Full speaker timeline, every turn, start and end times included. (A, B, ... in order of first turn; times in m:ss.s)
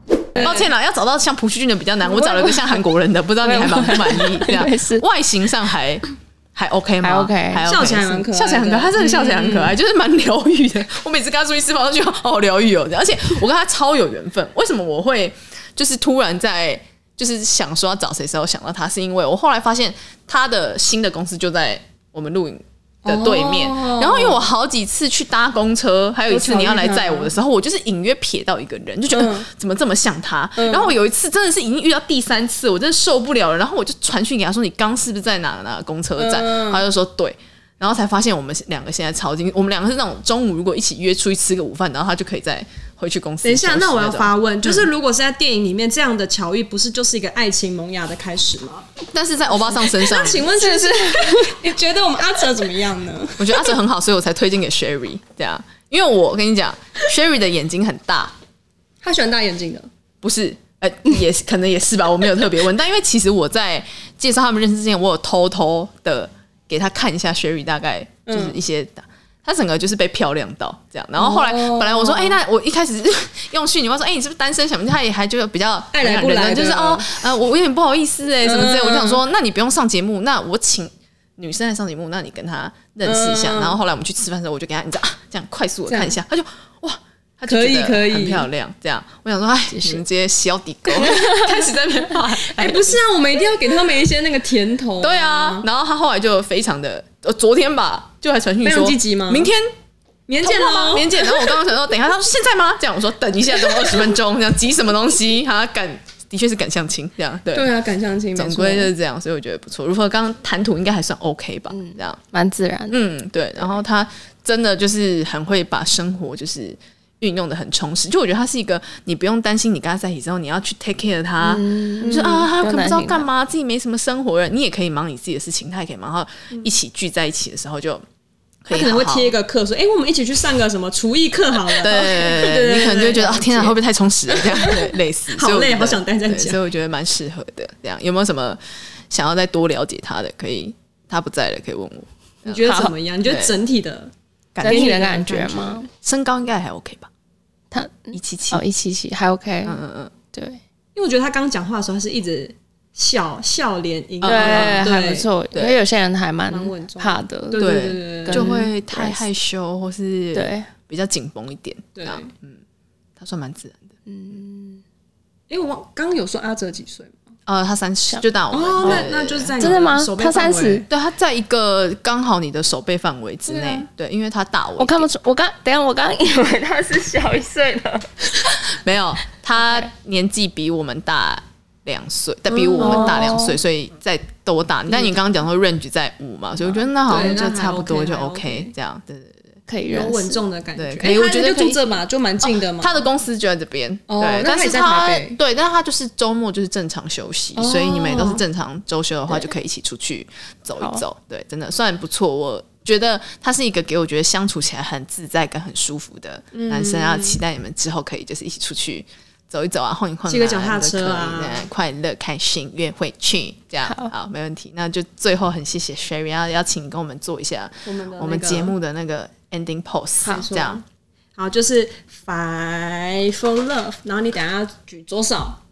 0:00.3-0:00.7 A
0:00.3-0:44.9 B
0:02.0-0:02.8 C
0:03.4-0:05.0 C
0:07.0-0:07.7 C
0:07.6-0:09.8 A
0:23.0-0:24.5 A
0:26.3-0:27.3 A
0:29.1-0:29.5 A
0:30.6-0:30.9 A
0:36.2-0:36.8 A
0:43.4-0:48.8 A
0:49.1-0:50.5 B
0:49.5-0:53.7 A
0:50.5-0:51.6 C
0:53.4-0:58.3 B
0:59.0-0:59.9 A
1:00.2-1:33.0 B
1:08.2-1:08.6 A
1:11.2-1:12.4 A
1:15.9-1:17.2 A
1:18.4-1:19.2 A
1:23.0-1:23.8 A
1:25.9-1:26.1 A
1:27.5-1:28.5 A
1:29.7-1:30.0 C
1:30.9-1:31.6 C
1:32.3-1:35.7 A
1:35.0-1:39.7 B
1:38.6-1:39.5 A
1:40.3-1:41.5 A
1:40.4-1:47.7 B
1:47.5-1:48.9 A
1:48.4-1:52.2 B
1:51.7-1:53.0 C
1:52.9-2:08.0 B
2:01.4-2:03.3 C
2:02.0-2:02.4 A
2:08.6-2:09.4 B
2:08.7-2:13.8 A
2:11.8-2:22.7 B
2:14.3-2:16.6 A
2:22.4-2:24.1 A
2:22.6-2:22.9 C
2:23.2-2:23.5 B
2:24.5-2:25.1 B
2:24.6-2:25.9 C
2:24.6-2:25.8 A
2:25.9-2:27.1 B
2:27.7-2:29.8 C
2:28.1-2:28.6 B
2:29.6-2:30.1 B
2:30.3-2:30.6 C
2:30.9-2:35.3 A
2:34.2-2:34.9 B
2:34.2-2:39.2 C
2:35.5-2:35.8 B
2:36.5-2:38.6 A
2:37.6-2:42.6 B
2:40.3-2:40.7 C
2:42.0-2:42.3 A
2:43.2-2:44.0 B
2:44.1-2:44.8 C
2:45.5-2:47.2 A
2:47.5-2:49.5 B
2:48.5-2:50.9 A
2:48.8-2:50.8 C
2:50.9-2:55.1 B
2:53.5-2:53.9 A
2:54.8-2:58.2 C
2:58.5-3:09.6 B
2:59.6-2:59.9 C
3:02.5-3:03.4 A
3:02.8-3:03.6 C
3:04.9-3:05.1 A
3:06.6-3:07.3 C
3:07.0-3:08.7 A
3:09.7-3:10.4 C
3:09.9-3:13.1 A
3:10.8-3:11.8 B
3:12.4-3:40.8 B
3:14.1-3:15.4 A
3:17.6-3:18.4 A
3:20.8-3:21.0 C
3:26.5-3:27.4 A
3:30.3-3:31.6 A
3:33.8-3:34.1 C
3:37.8-3:38.8 A
3:40.2-3:40.8 A
3:41.3-3:45.6 A